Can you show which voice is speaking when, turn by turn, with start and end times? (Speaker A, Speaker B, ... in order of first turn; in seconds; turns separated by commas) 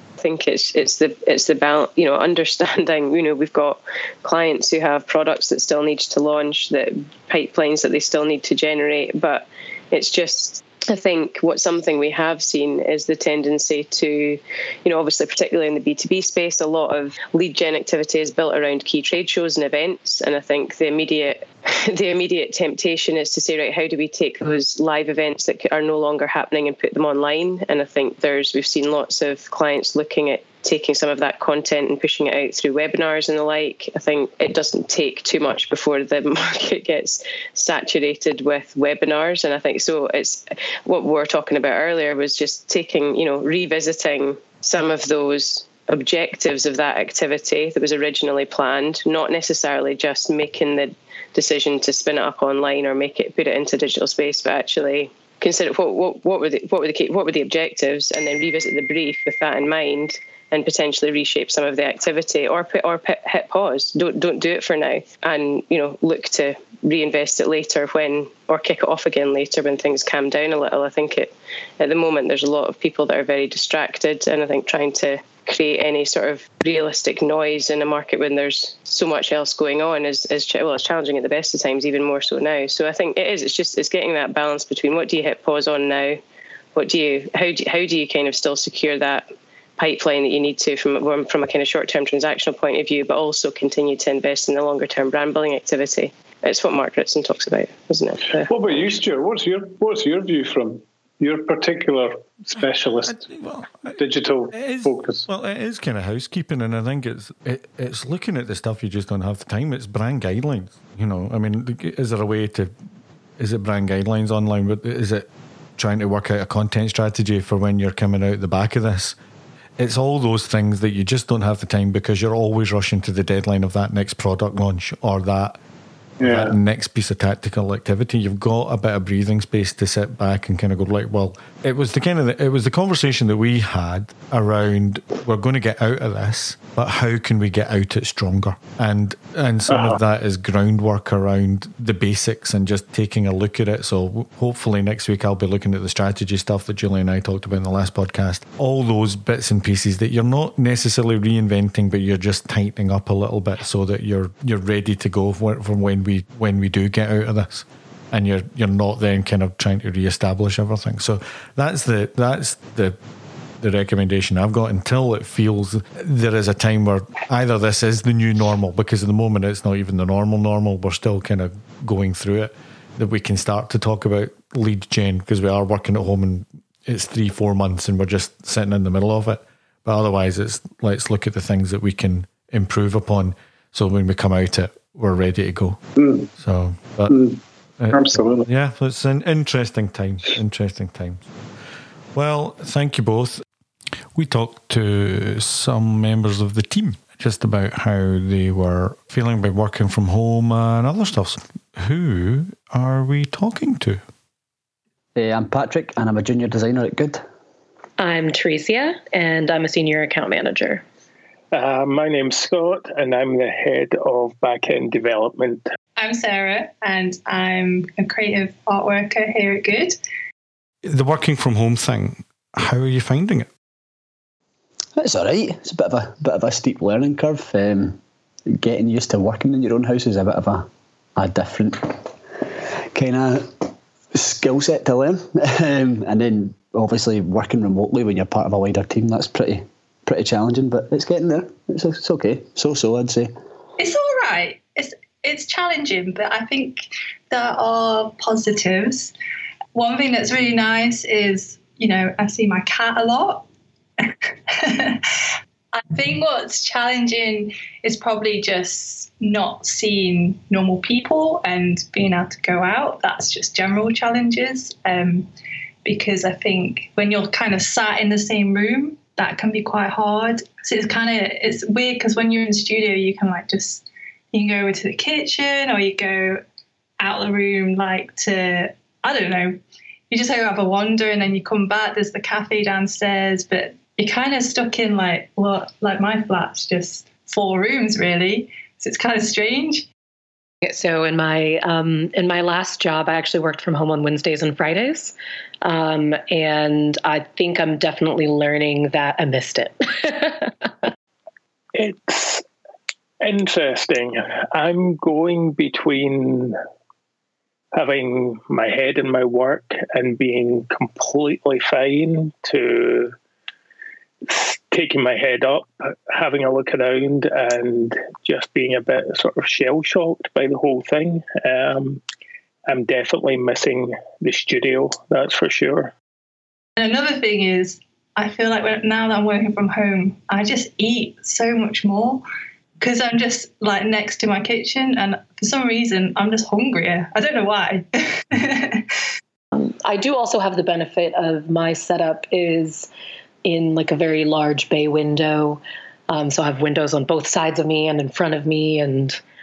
Speaker A: 0.2-86.2, Speaker A: 86.8-98.5, Speaker B: 98.3-103.3, Speaker C: 103.0-112.7, Speaker B: 104.0-105.3, Speaker C: 113.4-119.2, Speaker C: 119.8-125.6, Speaker B: 126.2-126.6, Speaker C: 126.2-163.0, Speaker B: 139.7-140.0, Speaker C: 163.6-185.8, Speaker B: 186.0-186.3, Speaker C: 186.3-187.3, Speaker B: 187.1-187.4, Speaker C: 187.8-191.3, Speaker B: 187.9-188.5, Speaker C: 192.2-193.4, Speaker C: 194.1-204.0, Speaker D: 205.2-207.2, Speaker E: 208.0-210.8, Speaker F: 211.5-215.6, Speaker G: 216.0-220.0, Speaker C: 220.8-223.5, Speaker D: 225.0-232.1, Speaker D: 232.9-243.3, Speaker G: 243.8-249.1, Speaker G: 249.7-253.5, Speaker G: 254.1-255.0, Speaker G: 255.7-265.3, Speaker G: 265.8-276.4, Speaker G: 277.0-279.6, Speaker G: 280.1-289.9, Speaker E: 290.6-300.9, Speaker F: 301.7-302.4, Speaker F: 303.2-306.6, Speaker F: 307.7-313.2, Speaker F: 314.3-322.0, Speaker F: 322.7-325.9, Speaker G: 326.8-332.2, Speaker G: 332.8-338.9, Speaker E: 339.5-342.9, Speaker E: 343.4-349.2